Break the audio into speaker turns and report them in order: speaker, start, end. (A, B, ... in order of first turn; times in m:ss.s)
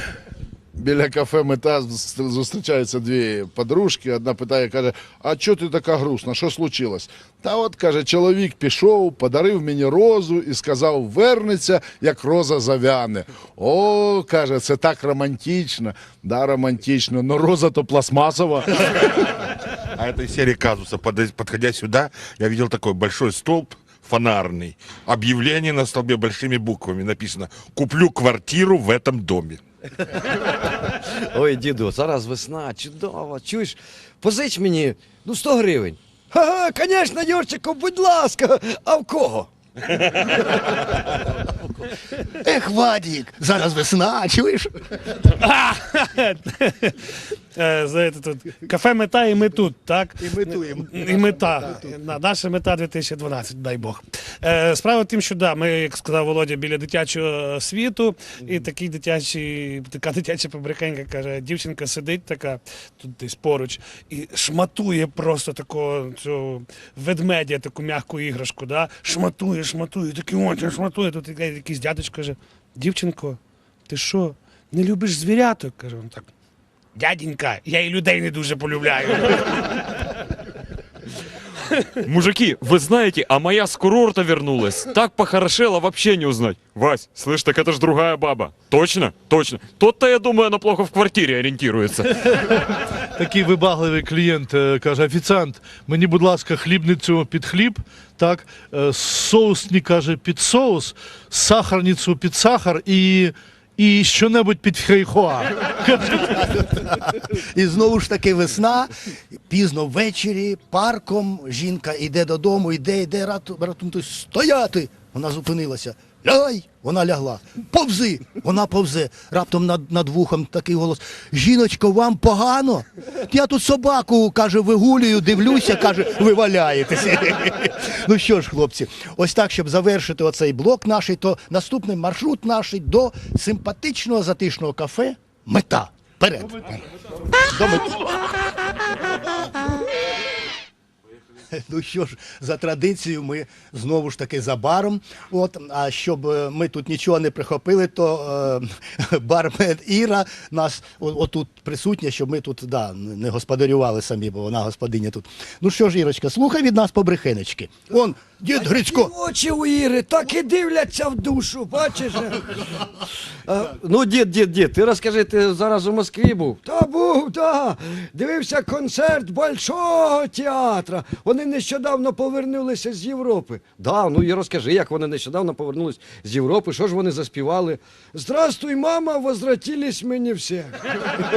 0:00.8-0:18.7 A
0:18.8-0:19.3 B
0:19.8-0:29.6 B
0:31.2-0:39.5 C
0:40.4-0:41.0 C
0:42.3-0:45.2 D
0:45.2-1:16.3 E
0:50.2-0:52.0 D
1:16.9-1:20.1 E
1:22.0-1:32.4 F
1:32.4-1:46.6 G
1:46.2-2:18.3 D
2:18.8-2:19.5 D
2:21.5-2:39.1 D
2:38.5-3:00.8 C